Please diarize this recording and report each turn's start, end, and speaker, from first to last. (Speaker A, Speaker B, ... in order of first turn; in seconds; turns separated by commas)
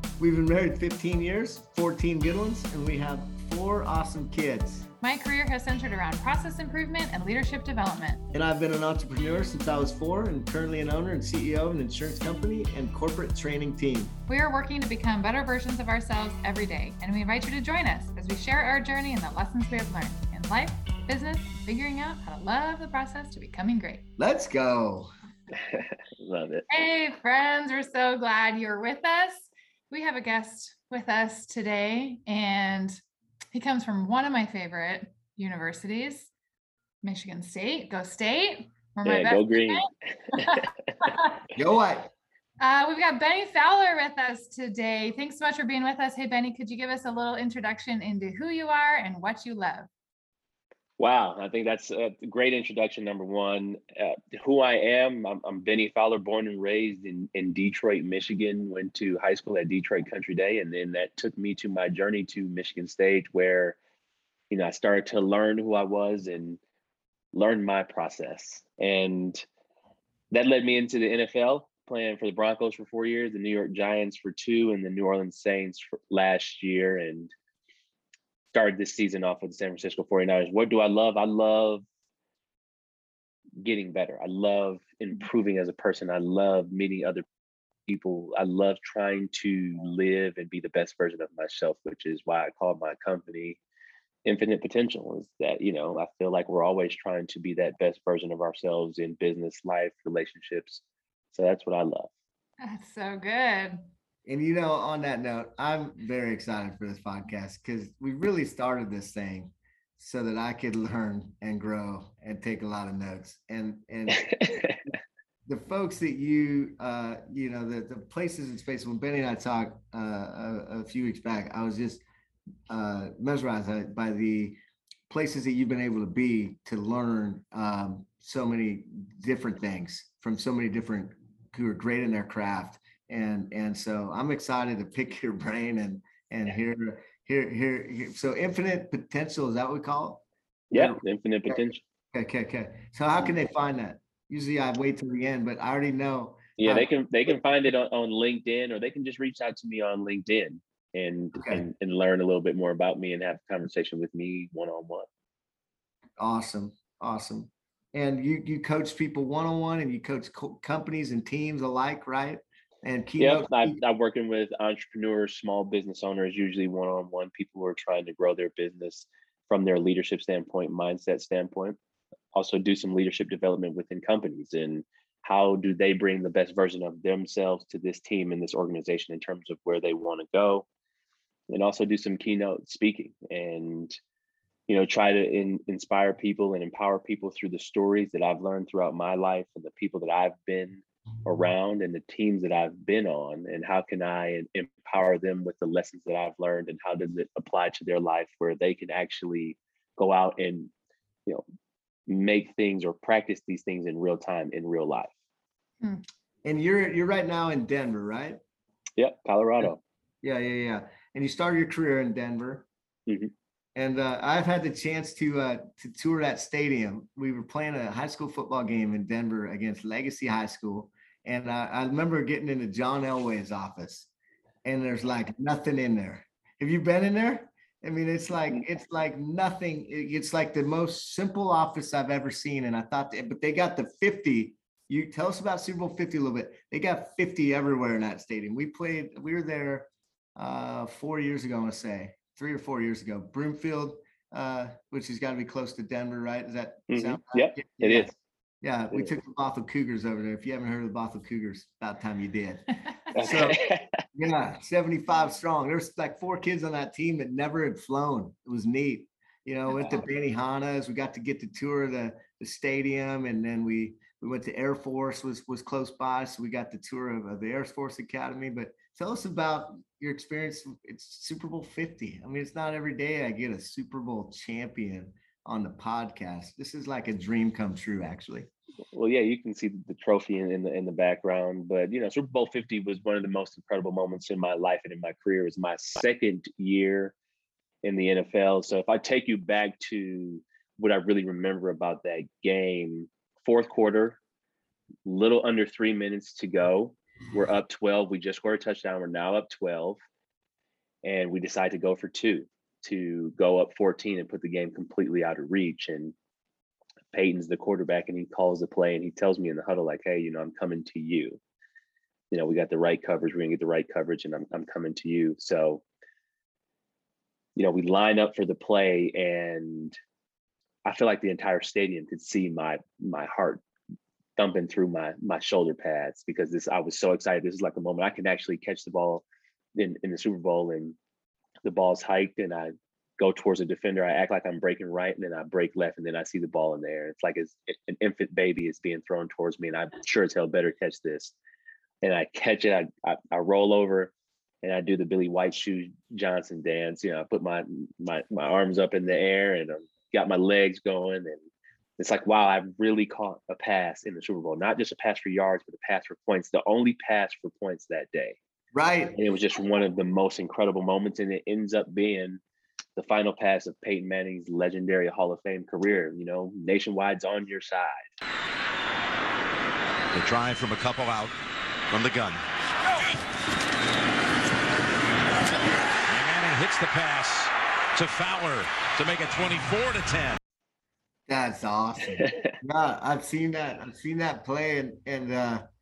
Speaker A: 0.2-4.9, Speaker B: 5.0-8.2, Speaker A: 8.3-14.1, Speaker B: 14.3-24.0, Speaker A: 24.2-25.1, Speaker C: 25.6-26.7, Speaker B: 26.7-33.0, Speaker B: 33.5-36.3, Speaker B: 37.0-41.4, Speaker C: 39.0-40.6, Speaker A: 41.5-42.1, Speaker B: 42.6-49.9, Speaker C: 51.0-63.8, Speaker C: 64.5-66.6, Speaker C: 67.3-69.4, Speaker C: 70.3-77.3, Speaker C: 78.5-81.8, Speaker C: 83.6-87.2, Speaker C: 87.9-93.6, Speaker C: 94.2-102.1, Speaker B: 102.6-103.8, Speaker A: 104.3-114.7, Speaker C: 114.1-114.8, Speaker A: 115.5-122.0, Speaker A: 122.7-147.4, Speaker C: 140.7-141.8, Speaker C: 146.6-155.1, Speaker A: 151.3-151.6, Speaker A: 156.2-163.8, Speaker C: 163.2-171.8, Speaker C: 172.3-180.7, Speaker C: 181.5-184.0, Speaker C: 184.7-200.7, Speaker C: 202.1-205.1, Speaker A: 206.4-208.4, Speaker C: 209.0-209.8, Speaker A: 210.2-212.7, Speaker C: 213.1-213.3, Speaker A: 213.8-224.1, Speaker A: 224.6-248.1, Speaker C: 246.9-248.2, Speaker A: 248.6-253.6, Speaker C: 253.1-254.0, Speaker A: 254.2-278.5, Speaker C: 278.9-287.1, Speaker C: 287.8-294.2, Speaker C: 295.1-300.0, Speaker C: 301.0-306.1, Speaker C: 307.1-311.4, Speaker C: 312.3-315.8, Speaker C: 317.6-320.0, Speaker C: 320.9-323.6, Speaker C: 324.4-331.0, Speaker C: 331.6-341.4, Speaker C: 342.0-344.1, Speaker C: 344.6-351.4, Speaker C: 352.0-358.4, Speaker A: 358.7-359.2, Speaker C: 359.2-362.4, Speaker C: 363.0-368.1, Speaker D: 370.1-371.4, Speaker D: 371.9-373.2, Speaker D: 376.1-380.4, Speaker A: 381.3-385.7, Speaker C: 382.1-382.5